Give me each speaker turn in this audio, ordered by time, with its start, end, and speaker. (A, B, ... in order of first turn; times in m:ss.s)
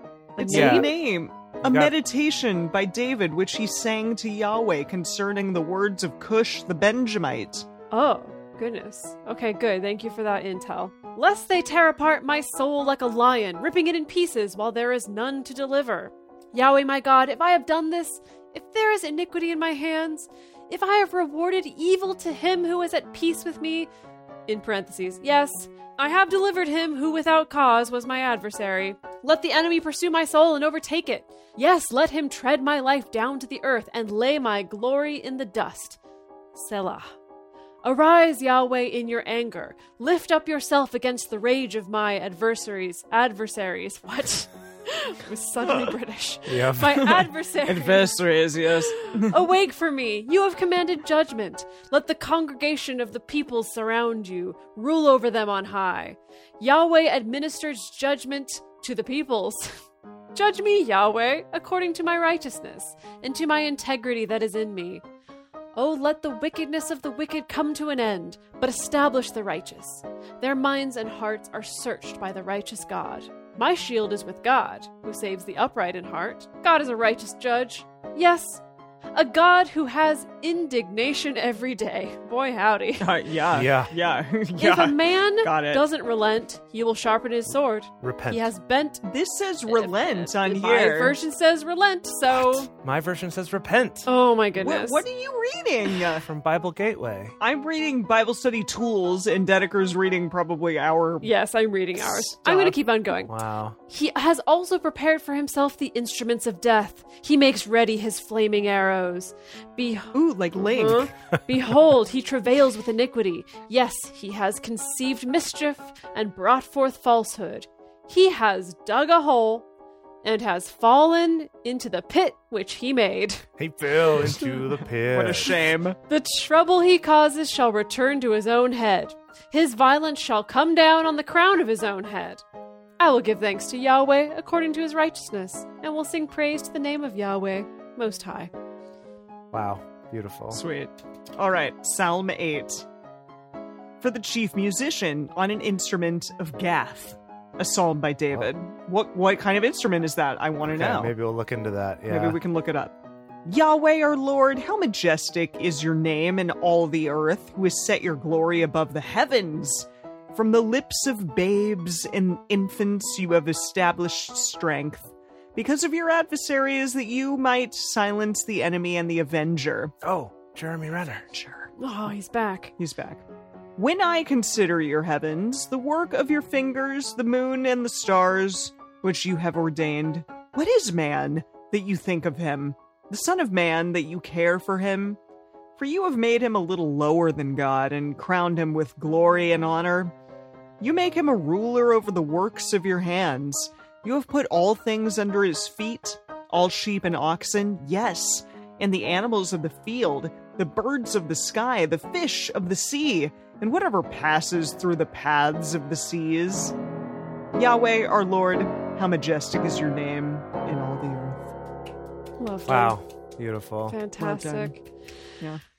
0:00.4-0:07.6 A
0:00.4-0:00.9 B
0:00.5-0:00.9 C
0:01.6-0:01.9 C
0:07.9-0:23.9 B
0:24.5-0:36.0 B
0:36.5-0:37.2 B
0:37.8-0:59.7 B
0:46.5-0:47.2 C
0:47.6-0:49.4 A
1:00.3-1:05.0 B
1:05.8-1:18.6 B
1:19.1-1:23.1 B
1:23.0-1:25.8 A
1:23.5-1:23.9 C
1:24.6-1:29.0 B
1:28.0-1:28.5 C
1:29.0-1:31.2 A
1:29.7-1:32.7 B
1:32.3-1:34.1 C
1:34.0-1:35.0 B
1:34.6-1:36.3 A
1:36.2-1:37.4 C
1:37.4-1:41.3 A
1:41.2-1:43.3 B
1:42.0-1:42.8 A
1:43.3-1:43.8 C
1:43.9-1:59.6 B
1:50.1-1:51.1 A
2:00.2-2:03.4 B
2:03.6-2:05.5 C
2:04.4-2:04.6 B
2:05.0-2:06.0 A
2:06.1-2:12.4 B
2:13.0-2:18.5 B
2:19.5-2:20.6 C
2:20.5-2:22.8 A
2:24.0-2:31.1 A
2:30.7-2:32.4 C
2:32.1-2:32.9 A
2:33.4-2:49.9 A
2:50.0-2:51.3 C
2:51.3-2:51.7 A
2:51.8-2:52.7 B
2:52.8-2:53.2 A
2:53.8-3:05.2 A
3:05.8-3:10.1 A
3:10.8-3:26.7 A
3:27.5-3:31.5 A
3:32.4-3:33.0 B
3:32.7-3:34.0 C
3:33.9-3:34.8 B
3:34.2-3:34.8 A